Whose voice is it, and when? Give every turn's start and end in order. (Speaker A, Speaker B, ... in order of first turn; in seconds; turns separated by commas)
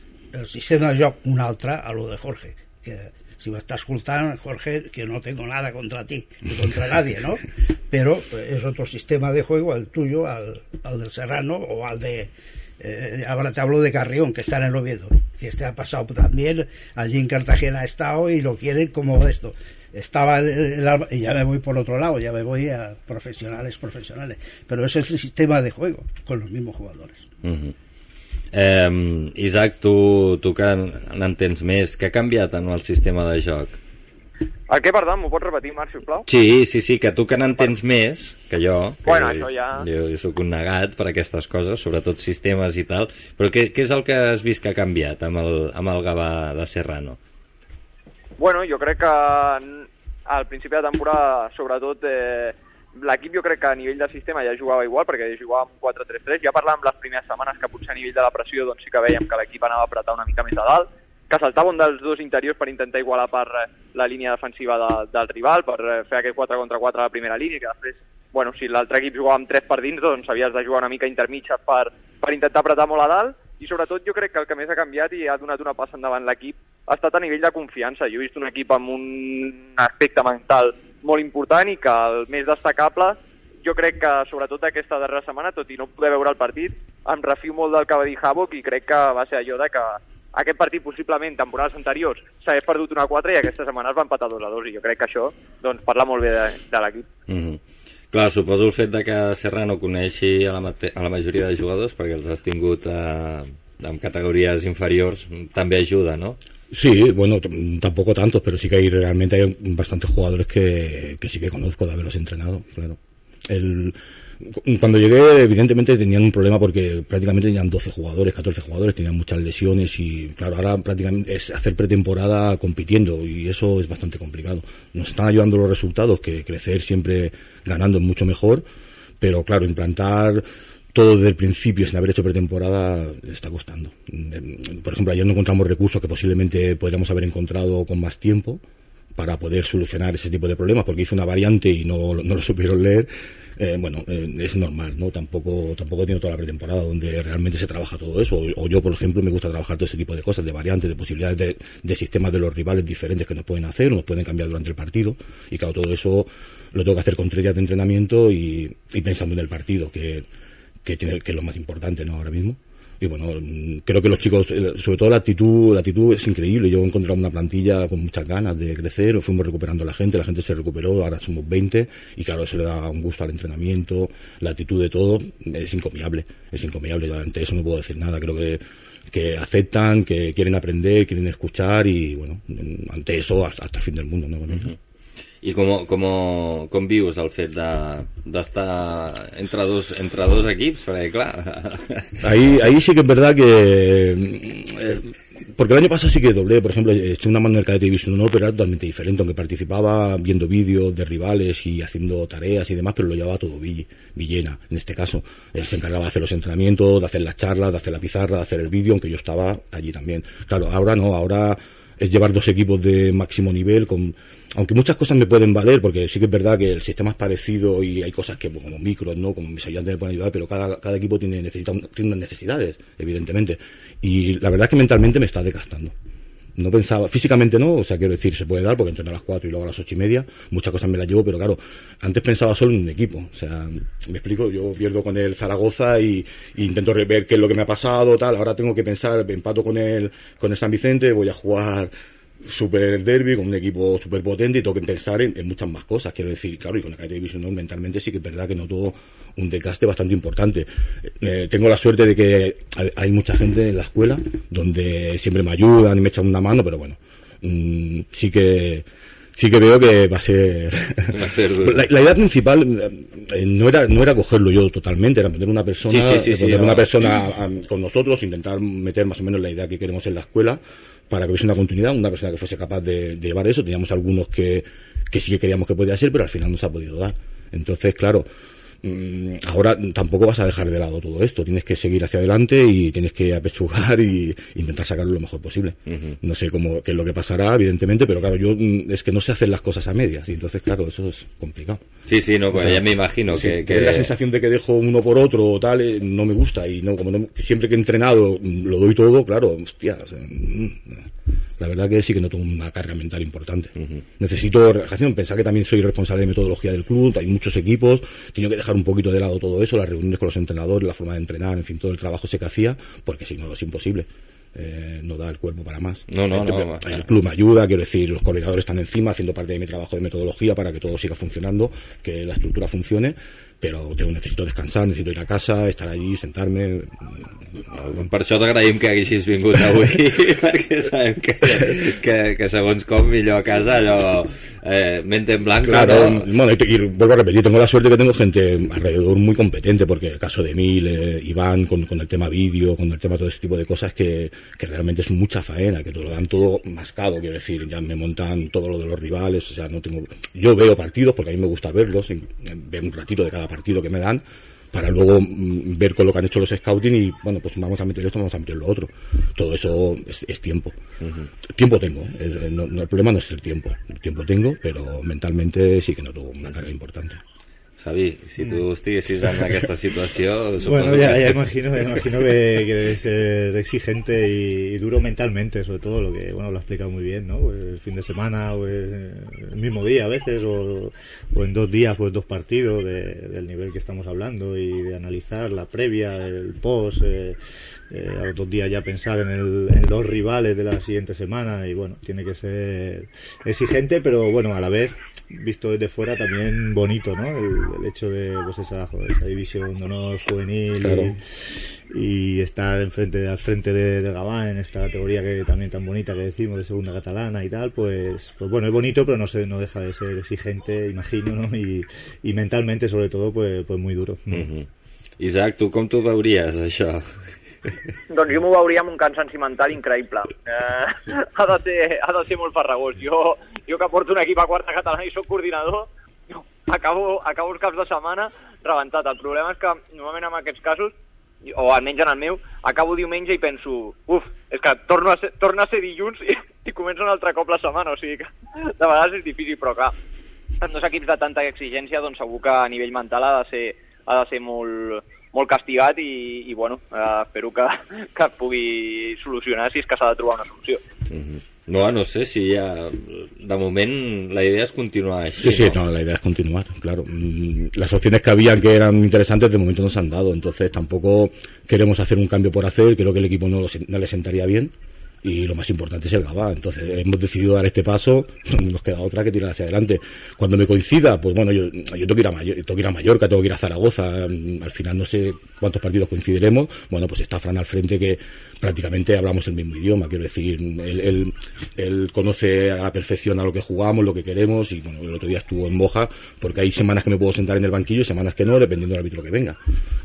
Speaker A: 0.3-27.3, Speaker B: 27.4-27.7, Speaker B: 28.5-33.8, Speaker C: 34.7-36.3, Speaker B: 36.3-47.2, Speaker C: 39.0-39.9, Speaker C: 48.4-97.1, Speaker B: 97.3-97.6, Speaker B: 98.1-106.4, Speaker D: 106.7-128.6, Speaker D: 129.2-138.6, Speaker D: 139.2-160.3, Speaker D: 160.8-184.7, Speaker B: 185.4-192.2, Speaker D: 192.2-225.9, Speaker D: 226.6-278.3, Speaker B: 261.1-261.9, Speaker B: 265.9-266.9, Speaker D: 278.8-291.9, Speaker B: 285.9-286.2, Speaker B: 292.1-294.1, Speaker D: 292.5-328.1, Speaker B: 316.1-317.1, Speaker B: 327.8-336.3, Speaker D: 335.6-360.8, Speaker B: 361.0-361.3, Speaker D: 361.4-367.2, Speaker B: 367.8-371.5, Speaker E: 370.6-387.4, Speaker E: 387.9-401.2, Speaker D: 400.8-401.1, Speaker E: 401.9-414.5, Speaker B: 414.3-414.7, Speaker B: 415.2-417.1, Speaker C: 418.1-430.9, Speaker C: 431.5-439.9, Speaker C: 440.6-450.8, Speaker B: 451.1-455.8, Speaker D: 455.4-489.6